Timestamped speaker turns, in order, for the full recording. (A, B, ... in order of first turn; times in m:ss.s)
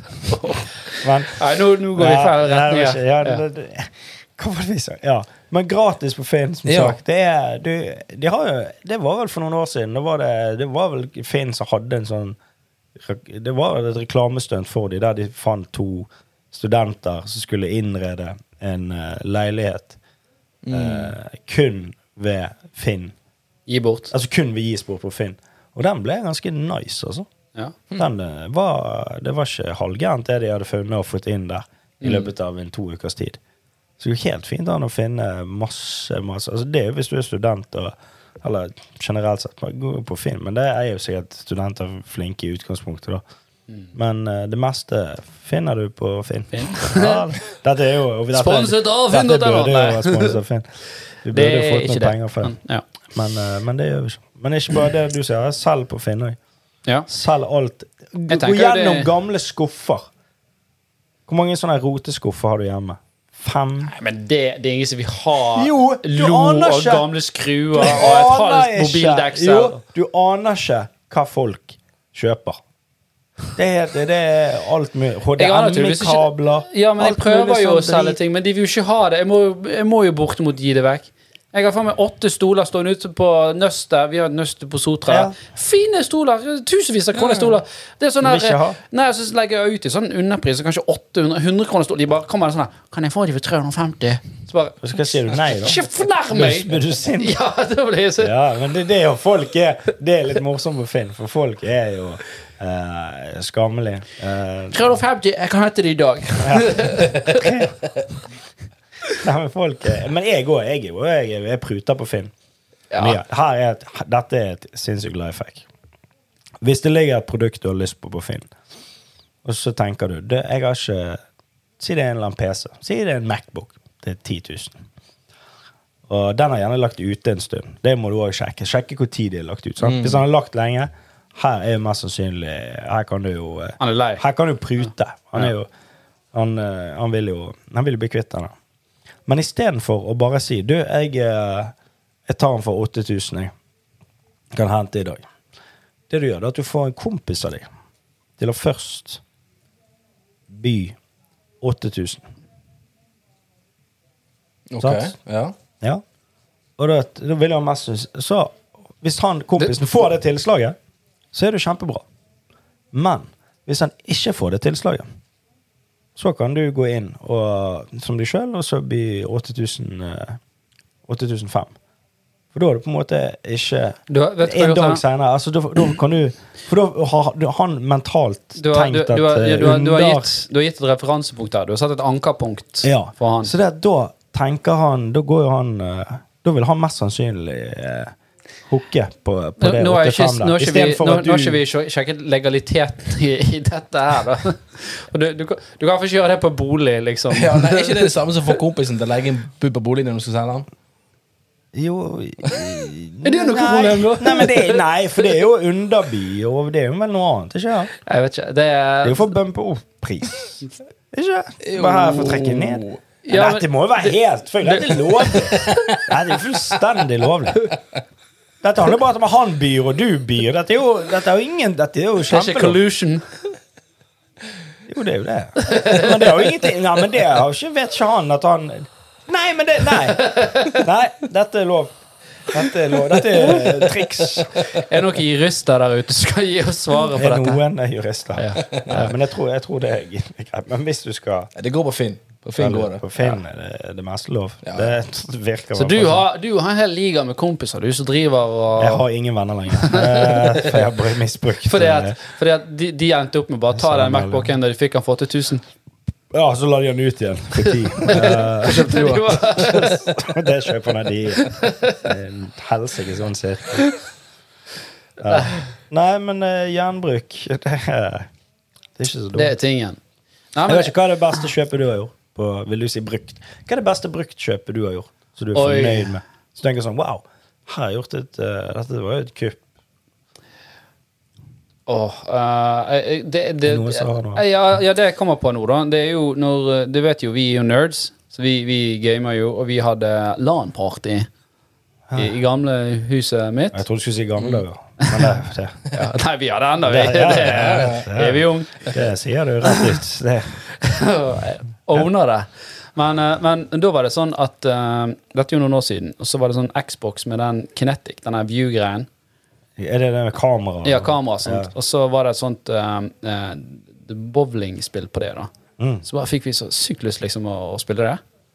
0:00.3-0:03.4 A
0:01.0-0:01.4 B
0:01.9-0:12.4 B
0:06.7-0:07.0 C
0:13.0-0:20.0 B
0:20.6-0:21.1 C
0:20.7-0:23.2 B
0:23.7-0:24.1 A
0:24.1-0:27.3 B
0:28.0-0:33.4 B
0:32.0-0:32.3 A
0:34.0-0:43.2 B
0:43.9-0:50.6 B
0:46.5-0:47.2 A
0:48.3-0:50.4 A
0:51.2-0:52.6 B
0:51.3-0:52.8 A
0:53.1-0:56.4 B
0:57.1-1:00.1 B
0:58.3-0:59.1 A
1:01.3-1:03.9 B
1:03.8-1:09.8 A
1:05.4-1:07.1 B
1:07.7-1:12.6 B
1:13.6-1:18.2 B
1:15.4-1:38.3 A
1:25.1-1:25.4 B
1:27.2-1:27.6 C
1:28.2-1:28.8 B
1:34.8-1:37.4 B
1:38.2-1:44.9 B
1:44.7-1:47.6 A
1:46.4-1:47.8 B
1:49.2-1:52.3 B
1:52.9-1:53.2 A
1:53.0-1:55.7 B
1:56.6-1:58.5 B
1:59.4-2:01.2 B
2:01.8-2:04.8 B
2:06.1-2:15.7 B
2:09.8-2:10.2 C
2:13.8-2:14.2 A
2:16.3-2:18.5 B
2:19.3-2:21.7 B
2:22.3-2:23.5 B
2:24.5-2:25.3 B
2:26.1-2:27.7 B
2:28.4-2:29.2 B
2:30.5-2:31.0 B
2:31.6-2:32.2 B
2:34.7-2:35.6 C
2:34.8-2:35.1 B
2:36.8-2:40.8 B
2:41.3-2:42.0 B
2:42.9-2:45.0 B
2:46.2-2:50.4 B
2:51.1-2:51.7 B
2:52.5-3:00.3 B
2:54.1-2:55.0 A
2:58.6-3:03.5 A
3:02.8-3:08.1 B
3:08.7-3:11.6 B
3:09.6-3:17.8 A
3:17.3-3:20.7 C
3:21.7-3:27.9 B
3:23.2-3:24.8 A
3:28.0-3:29.3 A
3:29.0-3:30.6 B
3:31.1-3:37.7 B
3:31.6-3:33.0 C
3:33.2-3:36.0 A
3:38.6-3:42.8 B
3:42.3-3:43.2 A
3:44.9-3:52.0 B
3:45.6-3:46.2 A
3:50.2-3:50.8 A
3:52.5-3:54.6 B
3:54.7-3:57.6 A
3:57.2-4:01.5 B
3:58.4-3:59.1 A
4:01.6-4:03.1 C
4:02.6-4:06.2 B
4:04.6-4:04.9 C
4:05.7-4:09.0 A
4:08.8-4:12.2 B
4:09.8-4:10.8 A
4:11.6-4:15.6 A
4:13.7-4:14.5 B
4:16.3-4:23.9 B
4:17.7-4:20.2 A
4:21.4-4:22.0 A
4:25.2-4:28.3 B
4:25.3-4:25.6 A
4:29.0-4:29.6 B
4:29.4-4:30.0 A
4:30.5-4:30.9 A
4:30.6-4:39.6 B
4:35.6-4:36.1 A
4:41.9-4:51.3 A
4:43.6-4:44.4 B
4:52.2-4:53.8 A
4:53.7-4:55.9 B
4:55.0-4:55.4 A
4:55.9-4:59.0 A
4:56.8-5:00.6 B
4:57.6-4:58.0 C
5:00.8-5:09.1 A
5:09.8-5:11.7 B
5:10.8-5:15.5 A
5:15.8-5:16.0 B
5:16.0-5:18.2 A